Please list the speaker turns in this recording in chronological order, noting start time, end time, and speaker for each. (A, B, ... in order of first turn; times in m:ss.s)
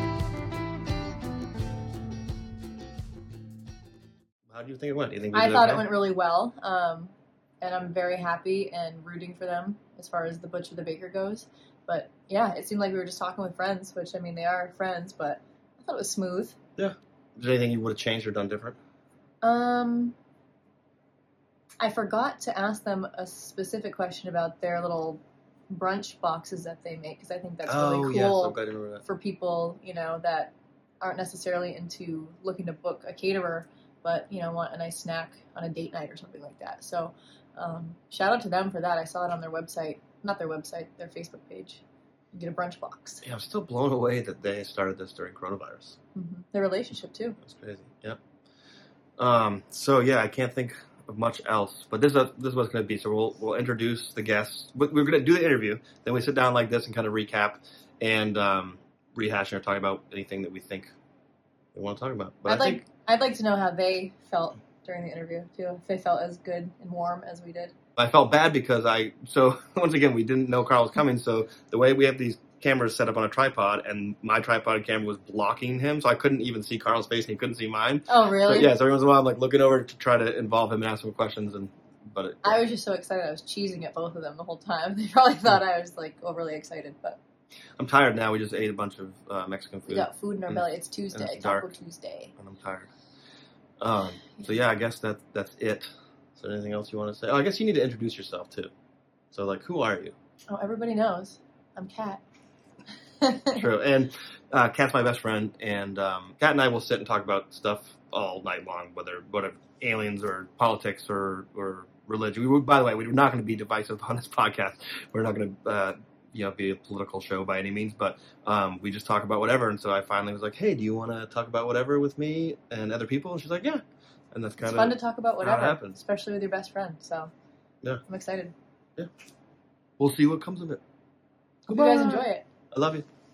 0:04.5-0:05.9 A
0:05.3-0:16.6 B
0:16.8-0:18.8 A
0:19.4-0:20.1 B
0:21.8-0:41.8 B
0:27.6-0:29.0 A
0:42.3-0:43.2 B
0:43.2-0:46.0 A
0:46.1-0:47.4 B
0:47.4-0:48.2 A
0:49.2-1:00.9 A
1:01.7-1:02.8 A
1:02.4-1:07.7 B
1:08.0-1:22.6 A
1:18.1-1:18.7 B
1:22.4-1:27.2 B
1:27.8-1:31.7 A
1:29.9-1:32.3 B
1:32.4-1:32.9 A
1:33.8-1:38.7 A
1:39.3-1:40.1 A
1:40.5-1:42.2 B
1:43.2-1:43.6 B
1:43.5-2:06.0 A
2:04.6-2:07.3 B
2:08.1-2:08.5 B
2:10.0-2:10.8 A
2:11.7-2:13.0 A
2:11.7-2:12.4 B